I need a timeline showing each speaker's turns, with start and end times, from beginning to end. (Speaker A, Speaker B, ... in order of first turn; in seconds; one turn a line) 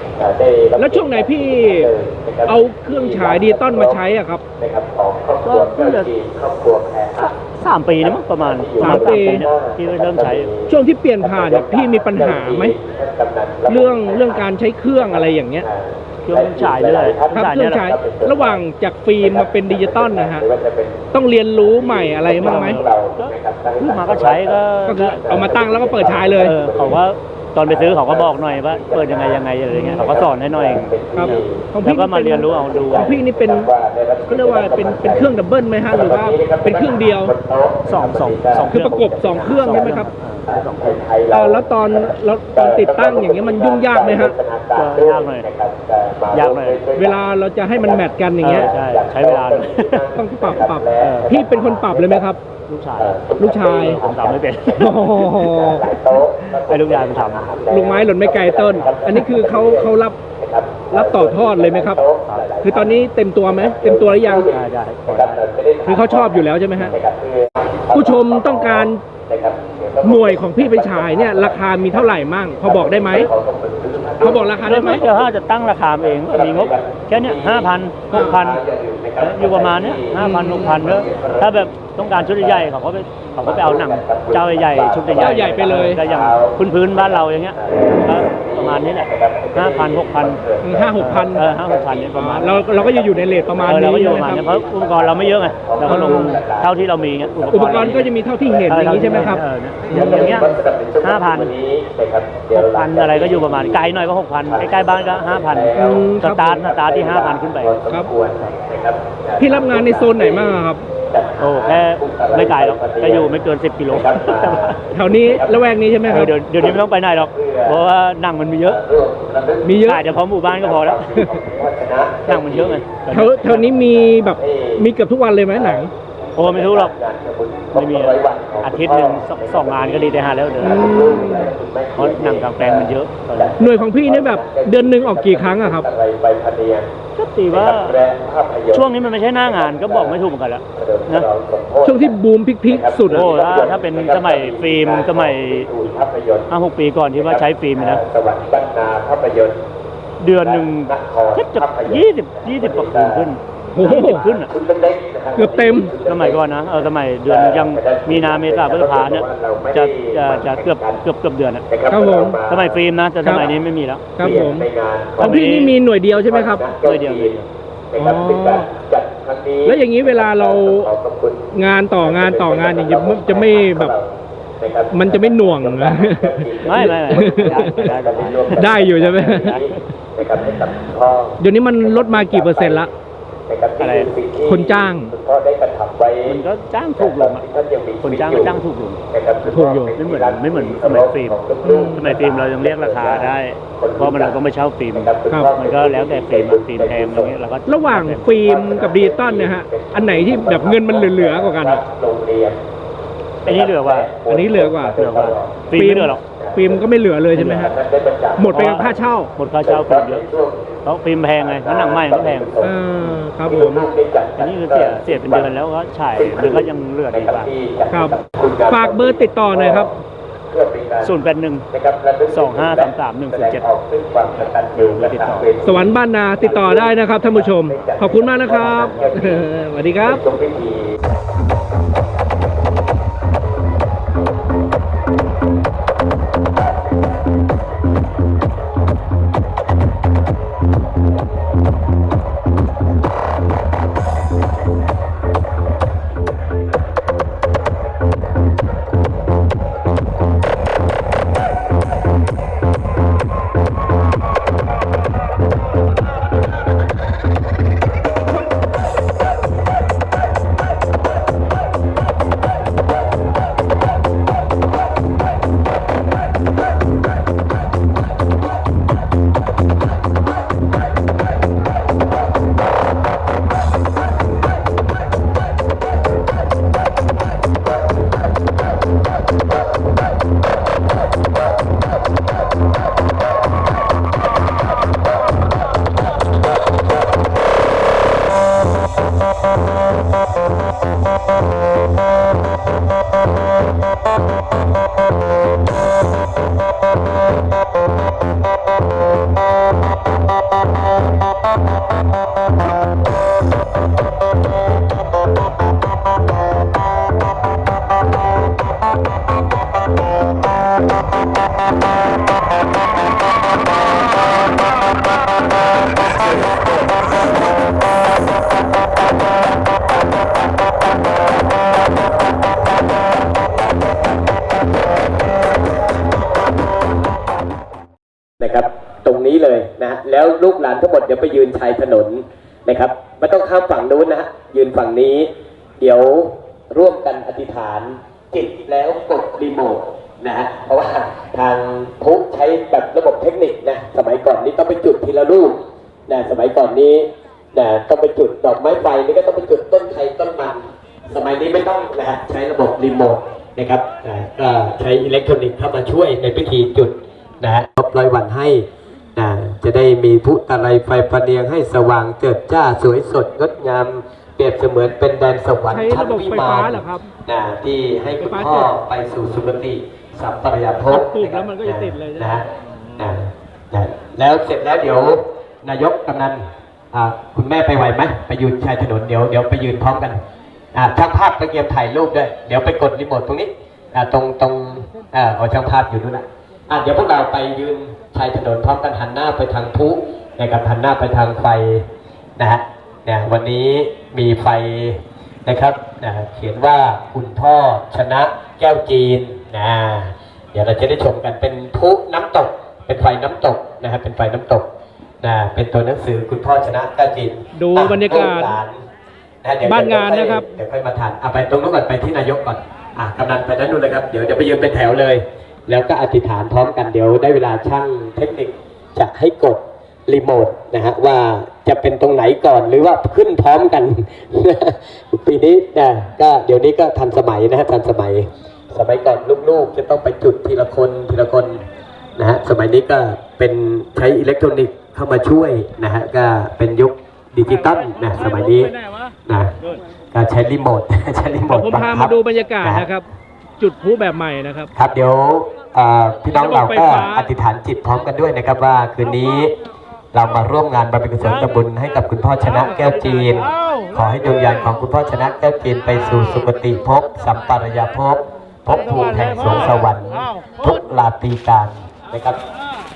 Speaker A: 0.2-4.0
Speaker B: 0.8-1.9
Speaker B: 2.5-4.4
Speaker A: 4.6-7.4
Speaker C: 5.4-6.1
Speaker C: 7.2-10.5
Speaker A: 8.0-18.6
Speaker B: 8.8-9.4
Speaker B: 10.7-12.8
Speaker B: 13.7-15.7
Speaker C: 16.2-17.8
Speaker B: 17.3-20.4
Speaker A: 19.2-27.0
Speaker B: 21.1-22.8
Speaker C: 22.3-25.2
Speaker B: 24.9-26.6
Speaker C: 26.4-33.1
Speaker A: 27.6-31.7
Speaker B: 29.7-30.1
Speaker B: 31.1-33.7
Speaker A: 32.4-52.3
Speaker B: 34.2-37.3
Speaker C: 37.9-41.0
Speaker B: 38.7-40.1
Speaker B: 41.3-44.3
Speaker C: 44.7-45.5
Speaker C: 46.3-46.8
Speaker B: 47.0-48.7
Speaker C: 48.4-50.1
Speaker B: 50.1-52.4
Speaker C: 51.0-51.3
Speaker C: 52.6-55.3
Speaker A: 53.0-82.7
Speaker B: 53.4-54.0
Speaker B: 54.8-55.9
Speaker C: 55.8-57.5
Speaker B: 57.7-60.2
Speaker C: 58.7-59.2
Speaker B: 60.9-62.0
Speaker B: 62.6-64.5
Speaker C: 64.5-65.4
Speaker B: 65.8-67.0
Speaker B: 67.9-69.0
Speaker B: 70.0-73.3
Speaker B: 74.2-75.0
Speaker C: 74.6-78.6
Speaker B: 78.1-78.4
Speaker C: 79.2-90.4
Speaker B: 80.2-80.8
Speaker A: 83.4-117.9
Speaker B: 85.1-86.0
Speaker B: 90.6-91.5
Speaker C: 91.0-92.6
Speaker B: 92.1-94.5
Speaker C: 93.6-98.1
Speaker B: 95.8-96.4
Speaker B: 97.5-100.4
Speaker C: 98.7-100.5
Speaker C: 101.0-101.5
Speaker C: 102.5-107.8
Speaker B: 105.8-106.6
Speaker B: 109.4-110.8
Speaker C: 111.4-114.8
Speaker B: 114.9-116.3
Speaker C: 116.1-118.8
Speaker A: 118.6-124.9
Speaker B: 119.6-120.0
Speaker C: 119.8-121.1
Speaker C: 122.2-123.7
Speaker B: 123.1-125.9
Speaker A: 125.5-136.9
Speaker C: 126.3-126.9
Speaker C: 127.7-131.1
Speaker B: 130.6-131.5
Speaker C: 131.9-133.6
Speaker B: 133.6-135.9
Speaker C: 137.1-138.0
Speaker A: 137.5-146.5
Speaker C: 138.7-141.3
Speaker B: 141.8-143.3
Speaker C: 143.1-145.7
Speaker C: 146.5-148.0
Speaker A: 147.1-149.7
Speaker C: 150.2-154.5
Speaker A: 150.4-161.0
Speaker B: 153.7-154.2
Speaker B: 155.3-155.9
Speaker C: 156.0-161.6
Speaker A: 161.7-163.6
Speaker B: 161.9-162.4
Speaker C: 162.5-164.1
Speaker B: 164.2-164.7
Speaker A: 164.2-165.5
Speaker C: 165.2-165.8
Speaker B: 165.2-166.7
Speaker A: 166.1-182.9
Speaker C: 166.8-167.5
Speaker B: 168.0-168.7
Speaker B: 169.6-170.9
Speaker B: 171.5-173.9
Speaker B: 174.9-177.9
Speaker C: 176.6-179.8
Speaker B: 178.6-179.6
Speaker B: 181.4-182.9
Speaker A: 183.5-186.4
Speaker C: 183.8-184.1
Speaker B: 184.4-185.1
Speaker C: 186.2-187.4
Speaker A: 187.0-194.4
Speaker C: 188.0-189.0
Speaker B: 189.4-189.9
Speaker C: 189.9-191.4
Speaker B: 191.6-192.2
Speaker C: 191.9-198.3
Speaker A: 194.9-197.3
Speaker B: 195.3-195.6
Speaker B: 197.7-201.8
Speaker A: 198.4-202.6
Speaker A: 203.4-205.7
Speaker C: 203.4-204.1
Speaker B: 204.2-205.0
Speaker C: 205.0-206.2
Speaker B: 205.7-207.8
Speaker A: 206.3-206.8
Speaker C: 207.3-207.7
Speaker A: 207.4-208.9
Speaker B: 208.4-209.3
Speaker C: 208.5-210.2
Speaker A: 209.5-210.8
Speaker C: 210.8-213.2
Speaker A: 211.3-212.8
Speaker B: 212.6-213.9
Speaker A: 213.4-215.5
Speaker C: 214.4-217.5
Speaker A: 216.1-219.9
Speaker B: 217.9-220.0
Speaker A: 220.5-229.5
Speaker C: 221.0-221.7
Speaker C: 222.3-223.7
Speaker C: 224.7-225.5
Speaker B: 225.6-230.2
Speaker C: 228.5-229.3
Speaker A: 230.0-231.0
Speaker A: 328.4-335.3
Speaker A: 335.8-372.5
Speaker B: 365.7-367.1
Speaker B: 368.2-368.7
Speaker B: 370.9-373.0
Speaker A: 373.0-380.2
Speaker A: 380.7-391.9
Speaker A: 392.4-404.7
Speaker A: 405.2-408.8
Speaker B: 407.5-408.6
Speaker A: 409.4-431.6
Speaker B: 409.6-410.5
Speaker A: 432.2-439.6
Speaker A: 440.1-442.9
Speaker B: 441.5-443.1
Speaker B: 443.6-444.7
Speaker A: 444.7-449.5
Speaker B: 446.3-447.3
Speaker A: 450.1-462.4
Speaker C: 451.2-451.6
Speaker C: 452.4-453.5